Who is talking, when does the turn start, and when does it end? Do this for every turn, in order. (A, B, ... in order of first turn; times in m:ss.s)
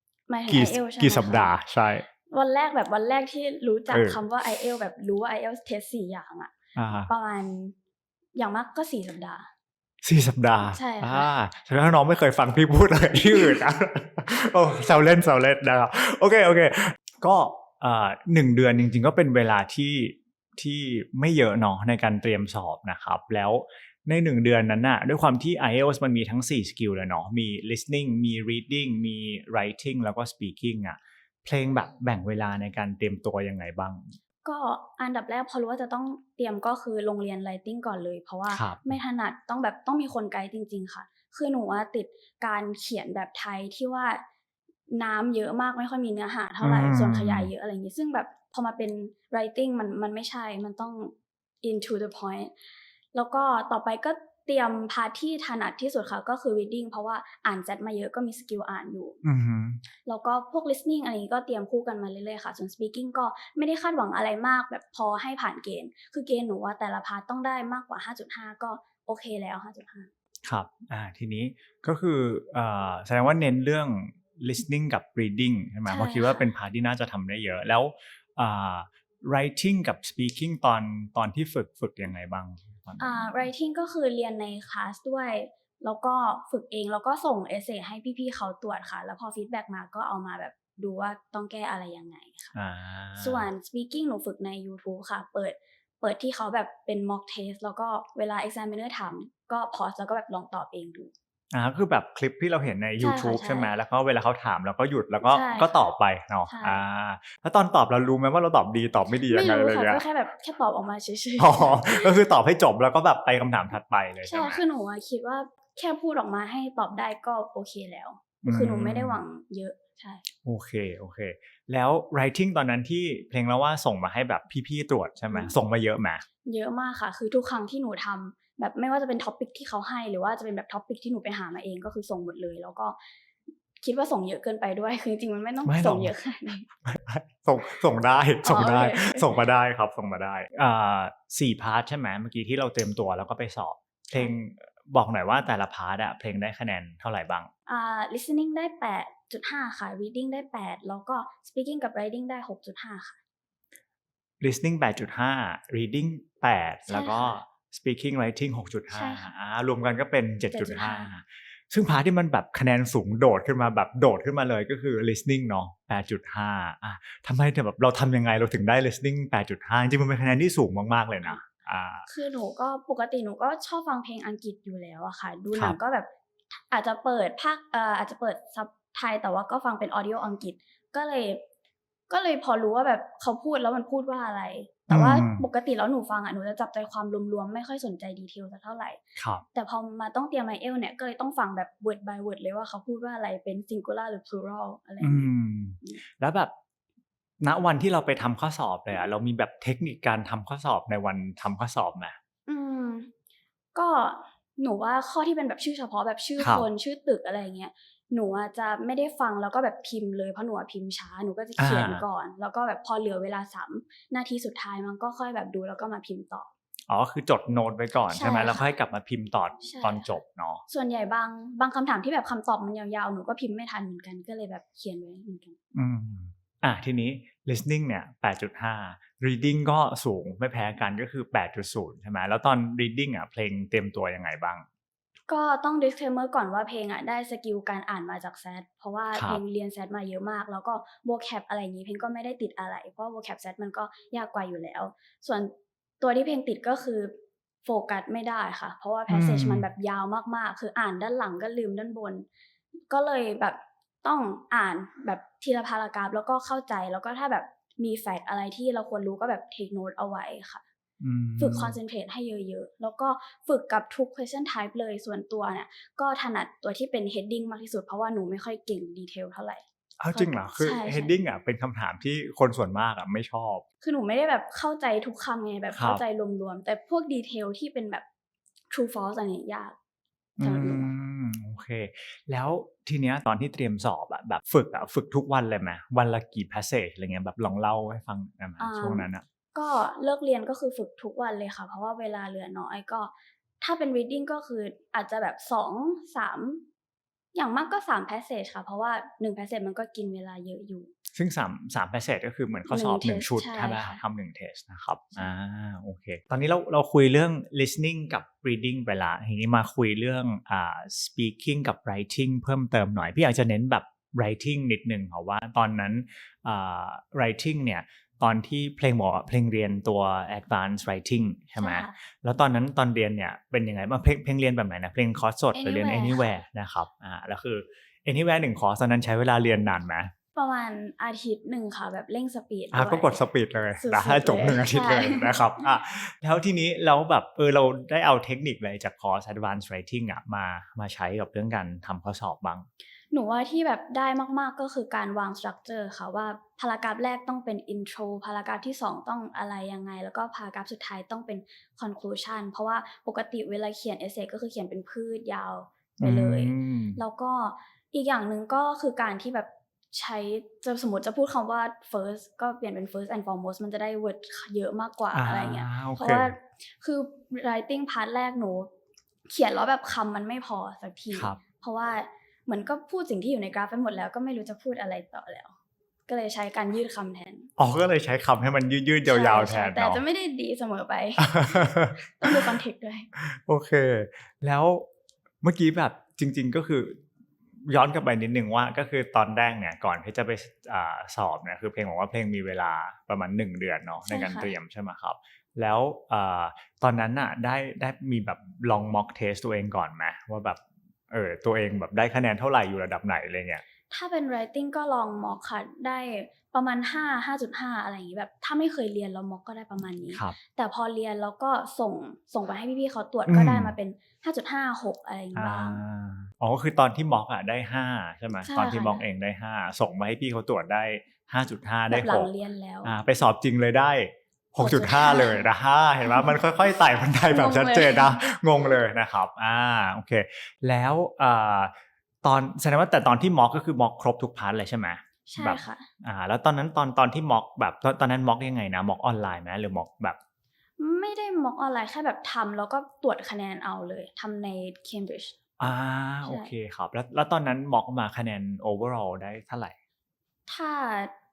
0:00.3-0:01.6 A
0:00.5-0:02.1 B
0:02.3-0:06.5 A
0:03.9-0:04.2 B
0:06.8-0:07.1 B
0:07.1-0:07.8 A
0:08.4-0:09.5 A
0:10.0-0:34.2 B
0:10.7-0:11.3 A
0:34.4-0:44.2 A
0:38.5-0:39.0 B
0:44.9-0:52.5 A
0:46.6-0:47.5 B
0:53.1-0:59.2 A
0:59.2-0:59.8 B
1:00.1-1:10.1 A
1:10.5-1:23.3 B
1:15.9-1:16.5 A
1:23.0-1:32.5 A
1:32.5-1:33.5 B
1:33.2-1:41.1 A
1:41.5-1:50.0 B
1:43.0-1:43.7 A
1:45.2-1:45.8 A
1:46.5-1:46.8 A
1:49.3-1:52.2 A
1:51.4-1:54.6 B
1:54.3-2:00.2 A
1:58.4-1:59.2 B
2:00.4-2:06.2 B
2:05.3-2:05.5 A
2:06.5-2:13.0 A
2:13.8-2:16.7 A
2:15.6-2:16.2 B
2:16.8-2:27.5 B
2:18.4-2:19.4 A
2:27.7-2:33.2 A
2:34.4-2:52.1 B
2:36.9-2:37.4 A
2:38.9-2:39.3 A
2:40.5-2:41.1 A
2:52.1-2:56.1 A
2:56.7-3:01.4 A
3:02.1-3:09.0 A
3:04.9-3:05.5 B
3:09.2-3:09.4 B
3:09.5-3:16.0 A
3:15.0-3:16.5 B
3:17.4-3:22.2 B
3:22.5-3:23.1 A
3:23.7-3:36.5 A
3:26.4-3:26.7 B
3:31.6-3:32.0 B
3:36.9-3:40.6 B
3:38.1-3:38.6 A
3:39.6-3:40.1 A
3:40.7-3:45.6 A
3:45.8-3:54.6 B
3:55.3-4:12.3 A
3:59.1-3:59.4 B
4:09.1-4:09.7 B
4:12.9-4:20.6 A
4:21.0-4:21.8 B
4:21.4-4:31.2 A
4:30.0-4:33.6 B
4:33.8-4:38.0 A
4:35.7-4:36.0 B
4:38.7-4:39.8 A
4:40.4-4:49.2 B
4:40.4-4:40.9 A
4:48.6-4:56.6 A
4:57.3-5:00.9 A
5:01.2-5:30.1 B
5:02.7-5:04.0 A
5:21.6-5:21.9 A
5:25.5-5:26.4 A
5:30.4-5:33.2 A
5:32.7-5:42.7 B
5:33.8-5:35.6 A
5:43.1-6:08.7 A
5:56.0-5:57.0 B
6:05.1-6:06.3 B
6:09.3-6:15.5 A
6:11.1-6:11.4 B
6:16.1-6:17.5 A
6:17.6-6:20.0 B
6:19.1-6:23.1 A
6:21.2-6:22.4 B
6:23.2-6:24.9 B
6:25.4-6:27.0 B
6:27.7-6:43.6 B
6:34.1-6:34.5 A
6:43.9-6:55.8 A
6:53.3-6:53.8 B
6:55.4-7:02.3 B
6:58.4-6:59.0 A
7:01.9-7:02.9 A
7:02.8-7:20.2 B
7:04.6-7:05.5 A
7:06.1-7:06.4 A
7:07.3-7:08.3 A
7:15.3-7:15.9 A
7:20.8-7:25.4 A
7:25.6-7:29.8 B
7:26.2-7:26.5 A
7:30.5-7:31.1 A